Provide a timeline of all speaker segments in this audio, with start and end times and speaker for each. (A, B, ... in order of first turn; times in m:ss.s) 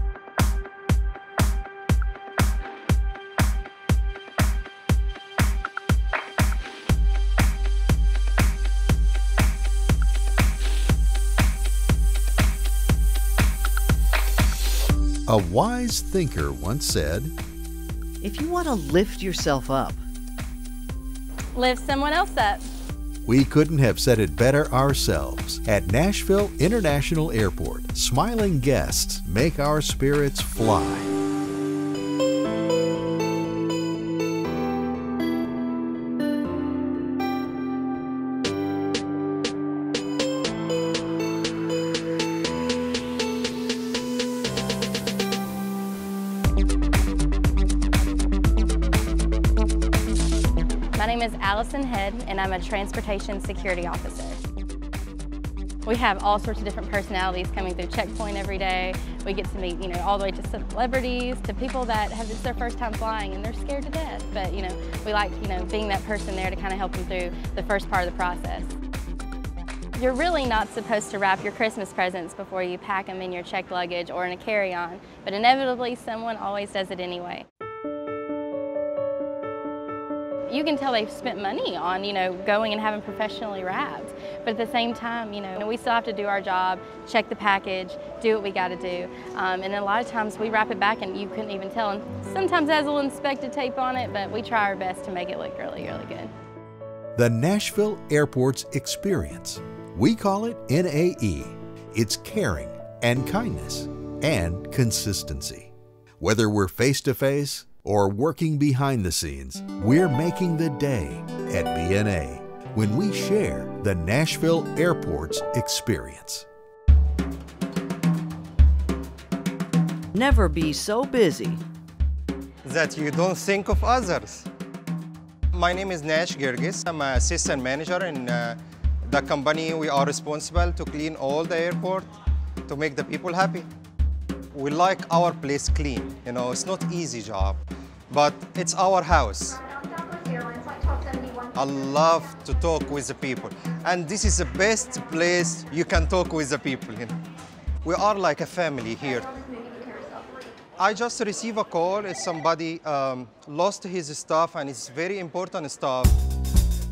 0:15.3-0:17.3 A
0:18.2-0:20.0 B
0:21.6-0:22.7 C
0:23.2-0:31.1 A
0:51.0-0:54.4 C
0:55.8-1:08.7 C
1:10.0-1:17.4 C
1:20.5-1:36.3 C
1:37.2-1:45.7 A
1:46.2-1:56.4 A
2:00.1-2:01.6 B
2:02.6-2:04.5 D
2:05.5-2:12.0 D
2:12.7-2:13.7 D
2:14.5-2:17.6 D
2:18.1-2:19.6 D
2:21.5-2:27.1 D
2:27.8-2:29.4 D
2:30.8-2:36.1 D